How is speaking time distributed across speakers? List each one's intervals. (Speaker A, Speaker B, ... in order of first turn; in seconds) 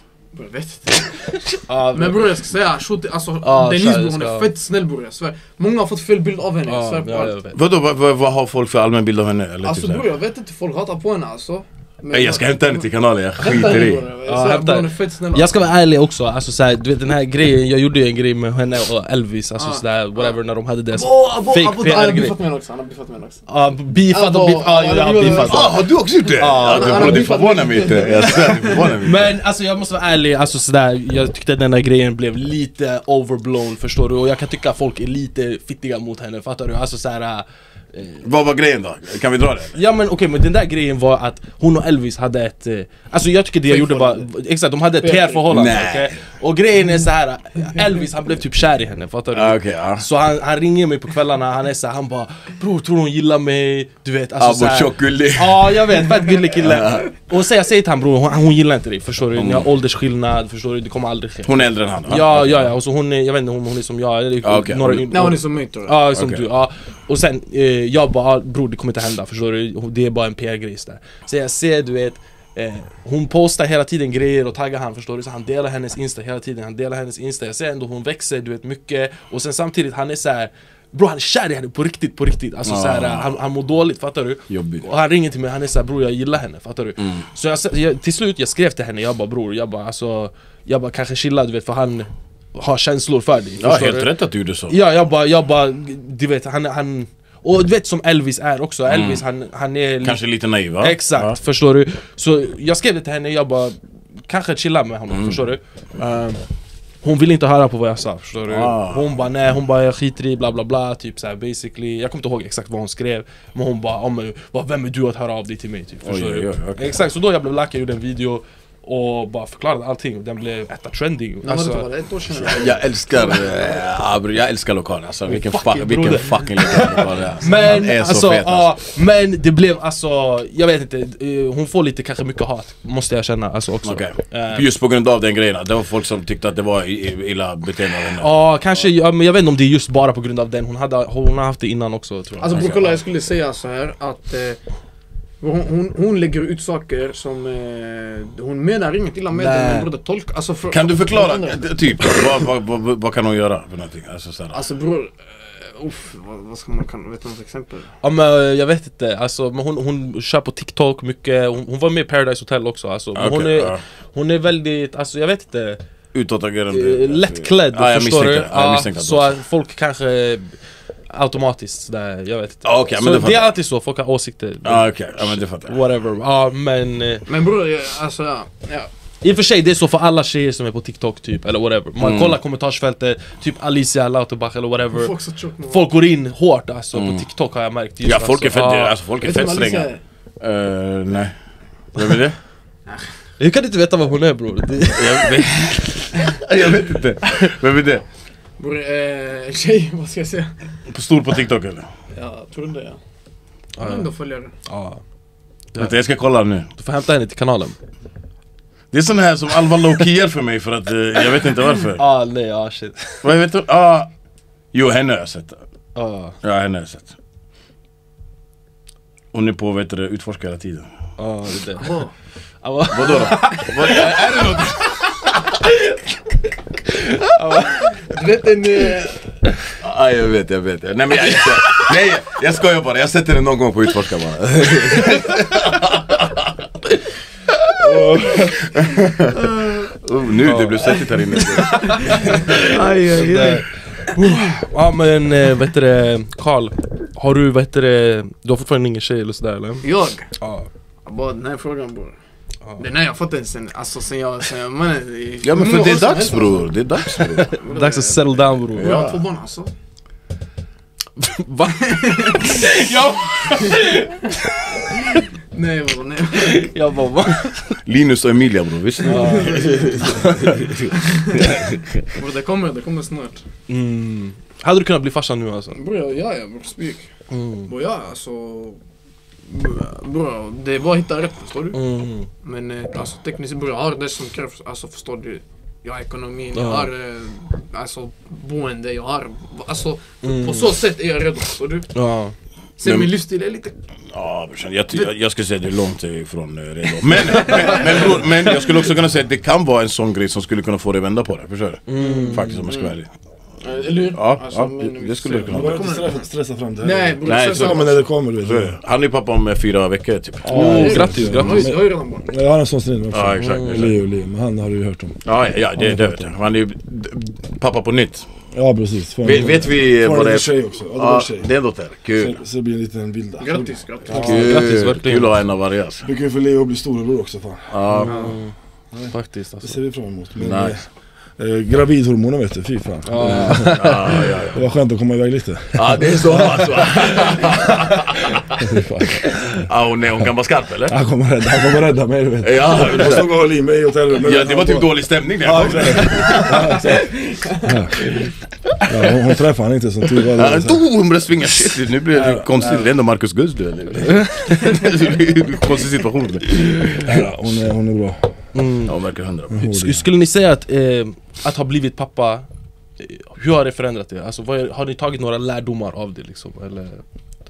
Speaker A: 0.3-7.4, 9.6-15.6, 19.6-20.4, 20.9-23.5, 24.1-25.9, 26.6-28.5, 43.6-44.3, 45.0-45.7, 65.1-66.0, 121.4-123.7, 142.4-144.6, 145.4-151.6, 154.5-157.9, 177.3-178.9, 184.9-185.9, 189.2-190.0, 198.6-200.6, 202.1-203.0, 203.8-204.5, 221.8-222.1, 227.9-229.3, 241.9-244.2, 249.8-250.3, 251.1-252.2, 252.8-256.7, 257.6-259.7, 261.7-264.2, 265.5-266.7, 269.0-270.3, 272.1-273.4, 275.7-277.1, 277.6-278.8, 279.4-281.8, 282.4-291.9, 292.8-293.7, 297.1-298.3, 302.0-302.9, 303.6-306.3, 306.8-308.1, 310.5-312.3, 323.4-324.6, 328.1-328.4, 346.2-347.7
Speaker B: 1.7-2.3, 3.4-4.5, 6.6-7.6, 14.2-22.3, 23.5-27.4, 27.9-38.2, 39.7-94.1, 94.7-100.2, 100.8-106.4, 107.0-121.9, 125.3-134.7, 138.2-142.7, 149.3-149.9, 158.0-165.8, 166.7-177.3, 179.2-189.0, 193.4-195.9, 203.8-204.1, 204.7-205.0, 206.7-207.8, 211.2-213.2, 215.9-216.4, 221.2-222.1, 222.6-224.7, 227.2-227.9, 240.4-241.1, 241.6-249.9, 250.4-250.7, 257.2-259.0, 261.2-264.4, 266.3-267.8, 269.0-270.8, 273.7-275.8, 277.3-277.7, 281.7-282.3, 286.5-286.9, 290.2-290.8, 291.9-292.3, 297.4-297.8, 301.9-302.6, 310.5-311.7, 313.4-313.9, 324.1-325.4, 327.9-328.5, 329.1-329.8, 333.1-334.2, 358.5-358.9, 359.6-362.5, 363.0-367.0
Speaker C: 7.5-10.1, 12.1-14.1, 25.4-29.3, 38.2-39.8, 45.5-46.2, 49.3-50.0, 54.4-56.0, 56.6-57.1, 59.3-59.7, 61.4-62.7, 64.4-65.1, 66.1-66.4, 82.6-83.3, 84.5-84.8, 87.0-87.2, 93.6-94.8, 98.9-99.2, 100.0-101.3, 105.1-105.4, 108.5-109.1, 116.0-116.9, 122.3-128.8, 133.8-138.3, 142.5-143.0, 150.7-154.6, 163.1-163.8, 166.1-169.4, 172.6-173.6, 174.6-175.8, 182.0-182.4, 186.9-187.2, 188.0-191.3, 191.9-192.4, 194.9-198.0, 200.9-201.9, 205.8-206.7, 208.9-212.0, 213.2-214.1, 214.7-215.6, 216.4-217.1, 219.3-220.9, 222.9-225.5, 229.8-236.5, 237.7-238.0, 238.7-239.5, 240.0-242.2, 255.4-257.6, 258.7-259.2, 267.8-270.7, 271.3-272.0, 292.8-293.1, 294.1-303.1, 304.1-305.9, 307.2-310.8, 313.1-314.0, 315.2-318.3, 319.2-322.3, 324.1-326.1, 327.7-328.3, 330.4-330.8, 333.2-334.6, 335.7-338.6, 339.5-341.0, 342.4-343.3, 344.1-346.8, 348.8-349.1, 350.3-356.9, 358.8-359.6
Speaker D: 237.8-238.6, 305.4-308.8, 310.4-315.2, 315.8-316.3, 318.5-321.5, 322.1-324.6, 326.0-327.7, 328.9-330.8, 331.4-337.3, 338.6-339.6, 340.9-348.1, 348.9-350.8, 352.1-352.9, 357.0-358.4, 359.5-360.0